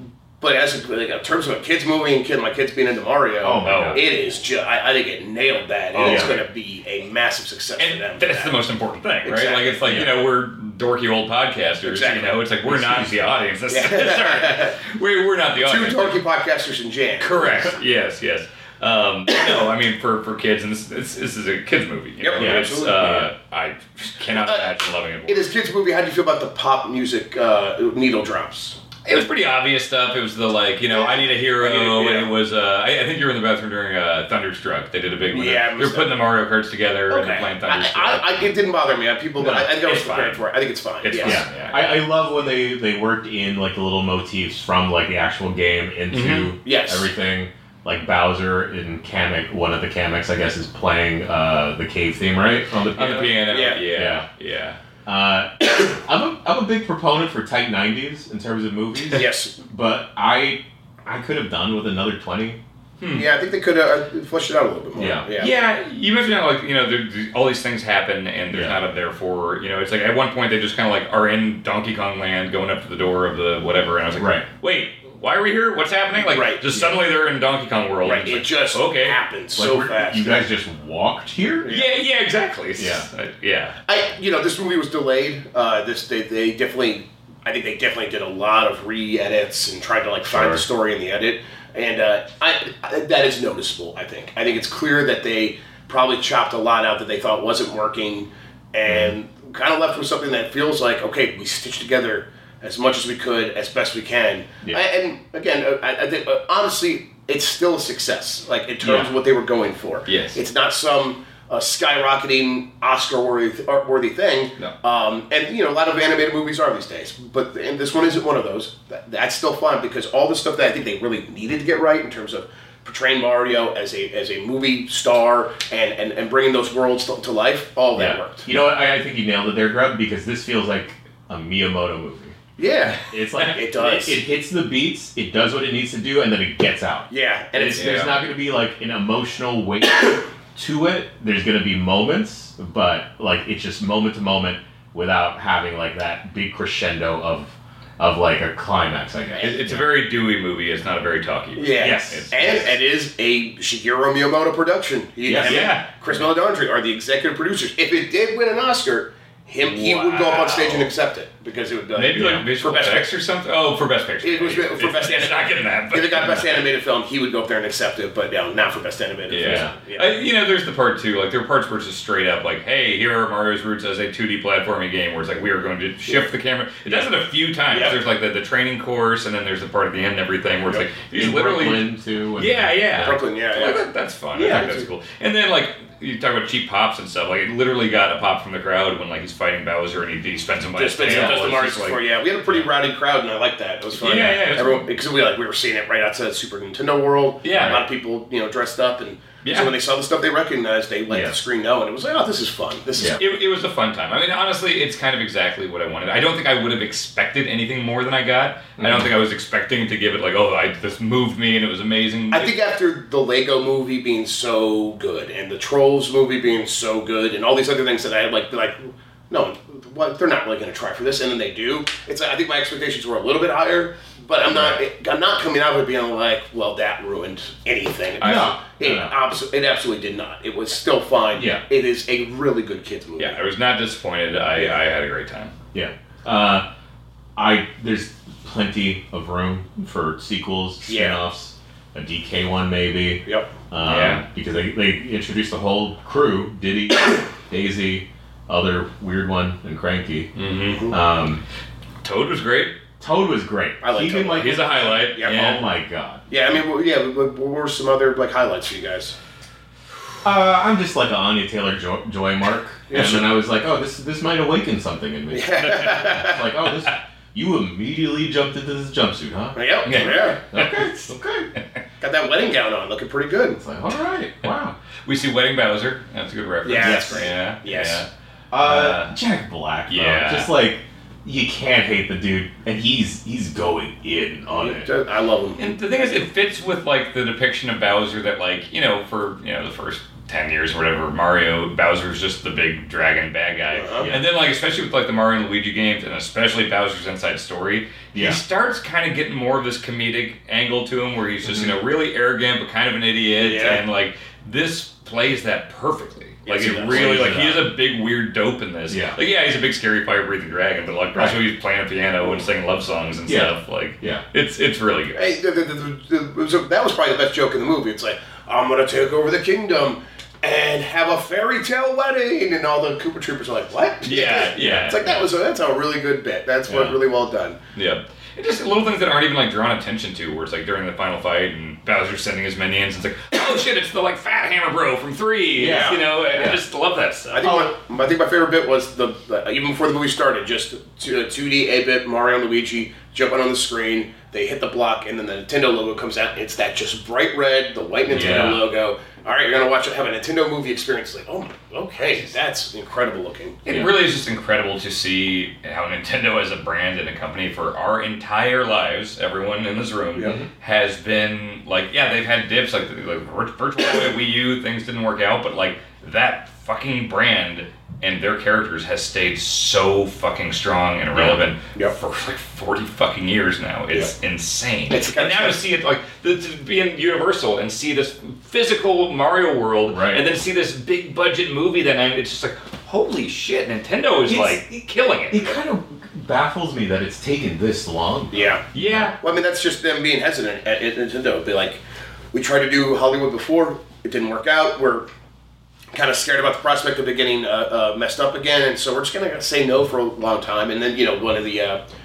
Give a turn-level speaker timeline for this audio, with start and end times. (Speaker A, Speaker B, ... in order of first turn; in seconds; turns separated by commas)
Speaker A: 0.4-8.6, Speaker B: 3.4-4.1, Speaker C: 3.6-4.0, Speaker C: 5.9-6.4, Speaker B: 6.0-6.4, Speaker C: 7.8-16.2, Speaker A: 9.2-10.0, Speaker A: 11.8-12.4, Speaker B: 12.6-13.4, Speaker A: 13.7-14.8, Speaker A: 15.6-17.7, Speaker C: 17.2-25.4, Speaker A: 22.2-22.9, Speaker B: 22.4-23.3, Speaker A: 24.3-24.7, Speaker A: 25.3-28.8, Speaker C: 29.0-38.5, Speaker A: 30.9-32.3, Speaker A: 35.3-36.2, Speaker A: 37.1-41.4, Speaker C: 39.4-40.4, Speaker C: 41.0-42.0, Speaker B: 41.2-53.4, Speaker C: 46.1-46.5, Speaker A: 46.6-47.1, Speaker C: 52.9-54.8, Speaker A: 53.5-53.8, Speaker B: 53.9-54.2, Speaker B: 55.0-62.6, Speaker A: 59.1-59.5, Speaker C: 63.0-63.3, Speaker A: 63.1-65.5, Speaker B: 65.0-65.2, Speaker C: 65.3-79.2, Speaker B: 68.5-68.8, Speaker B: 74.2-74.5, Speaker A: 76.1-76.7, Speaker A: 78.0-80.5, Speaker B: 79.5-81.7, Speaker A: 81.6-81.9, Speaker C: 81.7-83.8, Speaker B: 82.8-83.0, Speaker A: 83.9-128.5, Speaker B: 90.3-90.6, Speaker B: 98.8-99.1, Speaker B: 108.8-109.1, Speaker C: 110.1-110.4, Speaker B: 127.9-132.3, Speaker A: 132.6-134.2, Speaker B: 133.0-149.9, Speaker A: 137.1-138.1, Speaker C: 137.7-138.2, Speaker C: 149.4-152.7, Speaker A: 151.6-163.1, Speaker B: 151.8-152.3, Speaker B: 155.2-155.7, Speaker C: 155.4-155.9, Speaker C: 159.6-160.8, Speaker C: 161.9-166.6, Speaker B: 162.1-162.4, Speaker A: 164.2-170.2, Speaker C: 169.3-192.0, Speaker B: 169.4-169.7, Speaker A: 177.7-178.0, Speaker B: 180.7-183.2, Speaker A: 183.0-184.8, Speaker A: 190.8-203.2, Speaker B: 191.0-191.5, Speaker C: 194.0-194.9, Speaker C: 197.4-197.8, Speaker B: 197.5-197.8, Speaker C: 199.4-199.7, Speaker B: 201.1-201.4, Speaker C: 203.2-212.5, Speaker B: 208.8-209.1, Speaker A: 212.3-233.3, Speaker B: 224.5-224.8, Speaker B: 228.2-229.1, Speaker C: 228.2-228.5, Speaker B: 231.3-231.6, Speaker C: 233.2-235.5, Speaker A: 234.5-234.8, Speaker B: 235.7-236.7, Speaker B: 237.3-250.3, Speaker A: 240.8-241.2, Speaker A: 243.2-243.5, Speaker C: 243.8-244.2, Speaker C: 250.3-250.9, Speaker B: 250.9-251.4, Speaker C: 252.0-252.8, Speaker B: 253.0-256.2, Speaker A: 253.8-255.5, Speaker C: 254.3-255.6, Speaker A: 256.3-259.1, Speaker B: 260.2-271.5, Speaker A: 262.9-263.3, Speaker A: 265.3-266.5, Speaker A: 269.5-270.4, Speaker C: 269.8-271.1, Speaker A: 272.0-273.6, Speaker B: 273.6-274.7, Speaker C: 275.0-278.1, Speaker A: 276.6-278.0, Speaker B: 276.8-277.3, Speaker B: 278.5-284.9, Speaker C: 278.6-279.1, Speaker C: 279.9-280.5, Speaker A: 284.5-286.1, Speaker C: 285.6-315.4, Speaker A: 293.7-294.1, Speaker B: 298.1-298.4, Speaker B: 301.4-301.7, Speaker A: 303.4-303.8, Speaker A: 306.5-307.1, Speaker B: 306.8-307.7, Speaker B: 308.9-309.2, Speaker B: 313.2-314.2, Speaker A: 315.1-327.6, Speaker C: 324.0-325.2, Speaker B: 324.6-324.9, Speaker B: 326.7-327.0, Speaker C: 327.7-337.5, Speaker B: 335.6-336.6, Speaker A: 335.6-336.0, Speaker A: 337.3-353.6, Speaker B: 337.4-337.7, Speaker B: 348.1-348.6, Speaker C: 353.6-385.5, Speaker B: 353.7-353.9, Speaker B: 371.1-371.4, Speaker A: 374.9-375.6, Speaker B: 379.9-380.2, Speaker B: 384.3-389.1, Speaker A: 388.3-388.6, Speaker C: 388.7-389.2, Speaker A: 389.2-391.8, Speaker A: 392.3-395.1, Speaker A: 395.9-401.8